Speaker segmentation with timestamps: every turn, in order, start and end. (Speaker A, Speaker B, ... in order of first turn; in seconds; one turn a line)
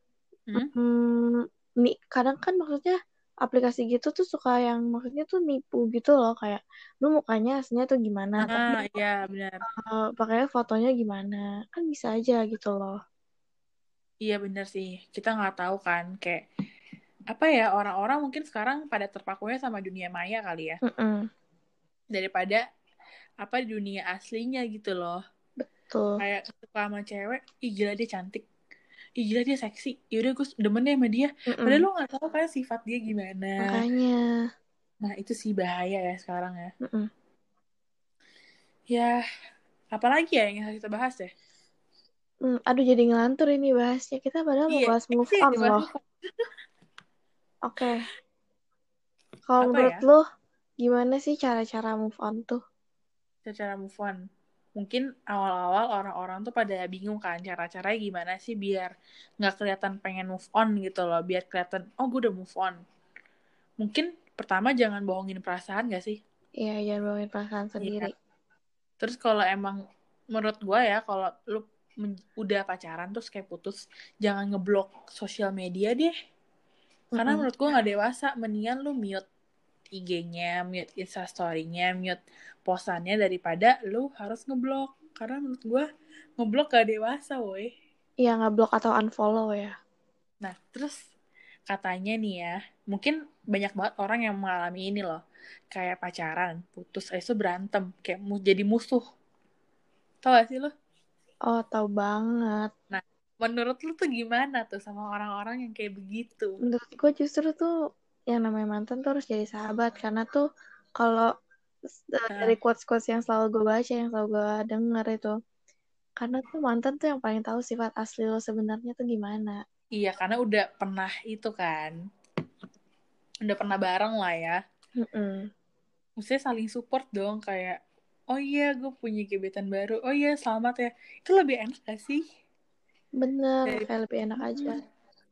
Speaker A: 0.6-8.8
Speaker B: 8.4-9.6
Speaker A: 9.7-13.0
Speaker B: 14.2-16.4
Speaker B: 17.3-20.8
Speaker A: 20.8-21.3
Speaker B: 22.1-22.6
Speaker B: 23.4-25.2
Speaker A: 25.6-26.2
Speaker B: 26.2-28.4
Speaker B: 29.2-33.8
Speaker A: 31.5-31.8
Speaker A: 33.6-34.2
Speaker B: 35.0-36.7
Speaker A: 36.8-37.1
Speaker B: 38.9-39.2
Speaker B: 39.9-41.3
Speaker A: 42.5-45.9
Speaker B: 44.7-46.0
Speaker A: 47.7-48.1
Speaker A: 49.5-50.2
Speaker B: 49.6-50.0
Speaker A: 50.8-52.6
Speaker B: 53.5-54.1
Speaker B: 54.8-62.8
Speaker B: 63.8-66.2
Speaker A: 66.6-68.1
Speaker B: 67.8-68.1
Speaker B: 69.0-69.8
Speaker B: 70.3-76.1
Speaker A: 77.1-77.5
Speaker B: 77.1-79.2
Speaker B: 79.9-85.8
Speaker B: 86.4-87.7
Speaker A: 88.2-89.7
Speaker B: 90.4-91.0
Speaker B: 91.7-95.2
Speaker B: 95.7-99.0
Speaker B: 100.2-100.7
Speaker A: 101.5-102.7
Speaker B: 102.9-106.5
Speaker A: 106.6-107.7
Speaker A: 108.3-110.4
Speaker A: 111.0-111.3
Speaker A: 112.1-115.3
Speaker B: 112.3-112.5
Speaker A: 116.2-119.6
Speaker B: 120.0-121.9
Speaker B: 123.4-124.6
Speaker A: 125.0-125.4
Speaker B: 126.2-127.8
Speaker B: 128.3-132.2
Speaker A: 133.2-134.8